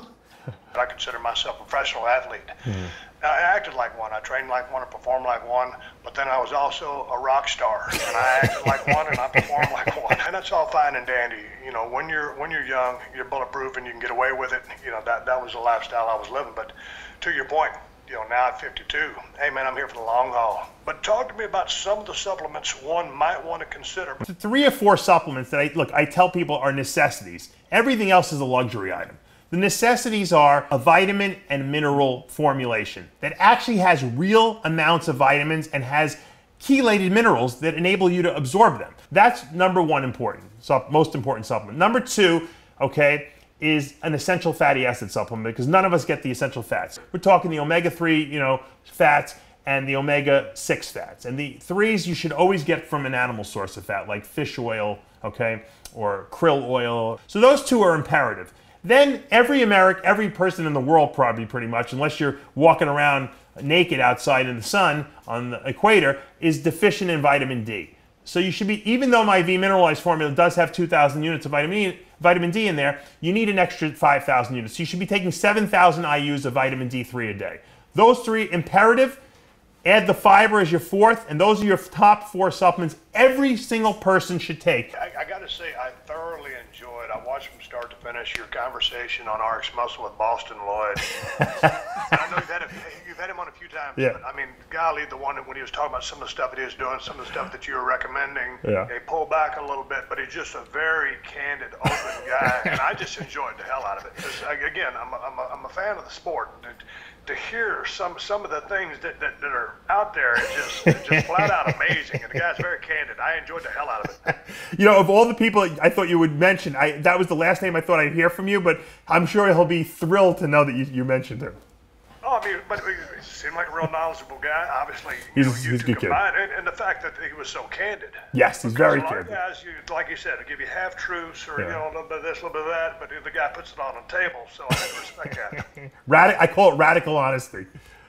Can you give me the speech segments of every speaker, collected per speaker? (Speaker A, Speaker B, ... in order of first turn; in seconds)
Speaker A: 0.7-2.6, 3.2-24.2, 84.9-91.0, 92.0-114.2, 122.2-135.7
Speaker B: 2.6-2.9, 24.2-79.2, 79.8-84.9, 91.3-92.1, 98.6-98.9, 102.4-102.8, 110.9-112.0, 114.2-121.6, 125.3-126.2, 128.3-129.3, 135.6-137.7